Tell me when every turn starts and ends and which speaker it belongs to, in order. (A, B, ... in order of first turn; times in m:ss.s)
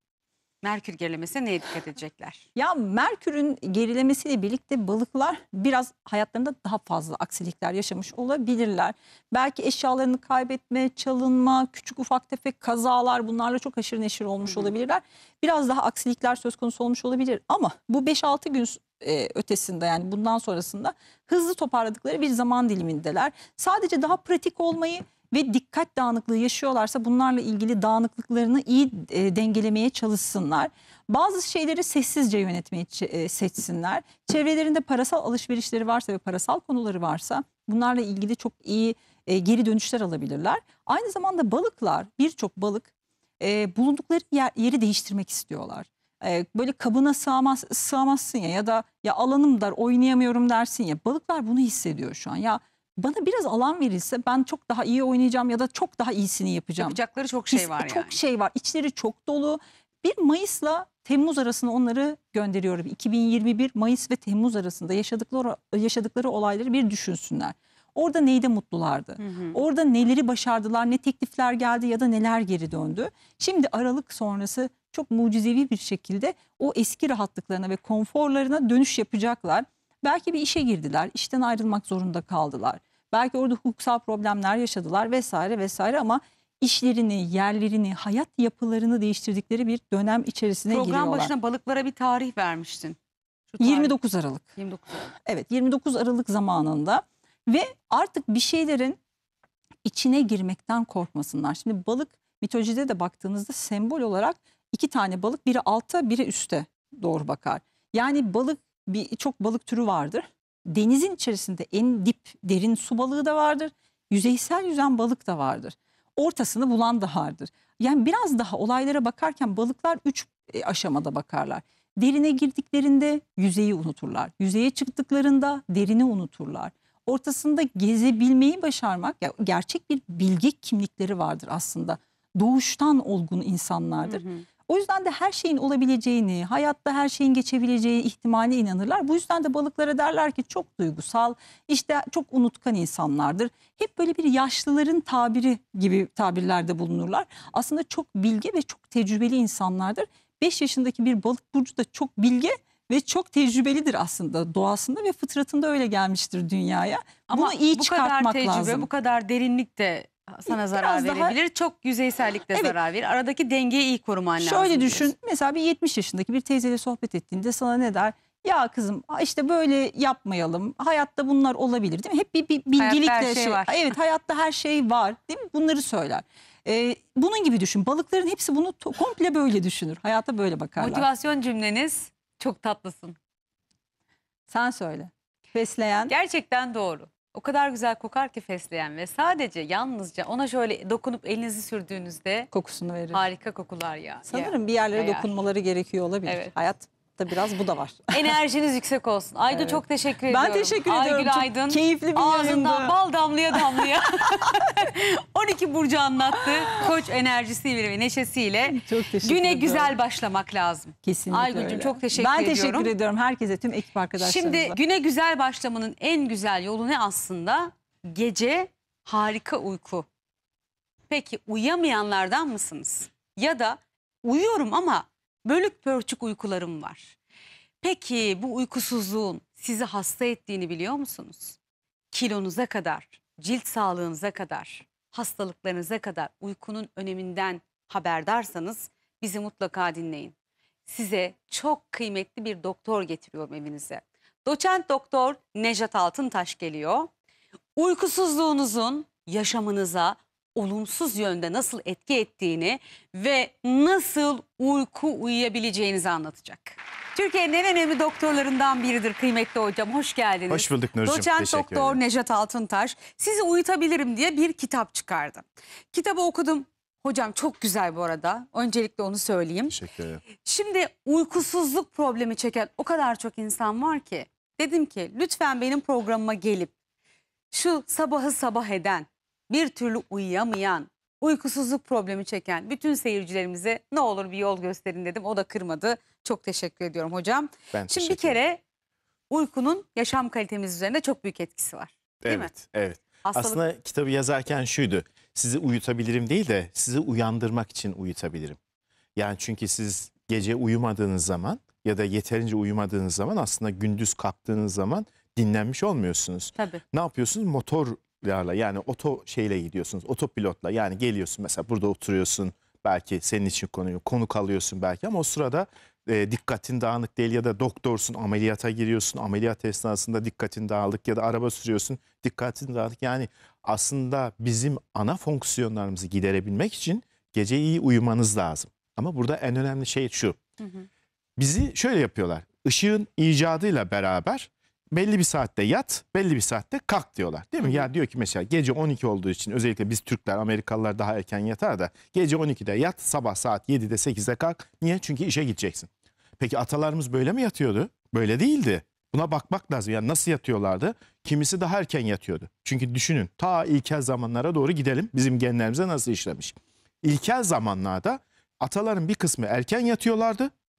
0:00.6-0:02.4 A
0:02.6-0:57.0 B
0:56.8-0:58.2 A
0:57.5-1:31.3 B
1:09.2-1:09.6 A
1:30.7-1:33.0 A
1:33.5-1:33.9 A
1:33.6-1:34.5 B
1:34.6-1:35.1 A
1:35.1-1:39.0 B
1:39.8-2:38.9 B
2:14.1-2:14.5 A
2:37.3-2:45.1 A
2:40.5-2:41.4 B
2:44.4-3:01.1 B
2:52.8-2:53.9 A
3:00.8-3:03.2 A
3:04.5-3:06.1 B
3:06.1-3:12.5 A
3:12.5-3:13.2 B
3:13.1-3:15.3 A
3:14.3-3:18.3 B
3:16.3-3:16.5 A
3:18.1-3:32.9 A
3:19.5-3:22.9 B
3:23.5-3:24.7 B
3:26.4-3:26.9 B
3:28.7-3:30.0 B
3:31.0-3:34.8 B
3:34.2-3:40.1 A
3:41.1-3:47.2 A
3:47.8-3:51.6 A
3:52.1-4:00.3 A
4:00.9-4:07.1 A
4:07.8-4:29.8 A
4:20.5-4:22.0 C
4:29.7-4:30.2 C
4:30.3-4:36.7 A
4:37.5-4:48.6 A
4:47.7-4:48.4 C
4:49.3-4:52.5 A
4:52.2-4:58.6 C
4:53.2-4:53.6 A
4:59.2-5:30.4 C
5:30.6-5:30.9 A
5:31.4-6:00.5 C
5:37.6-5:37.9 A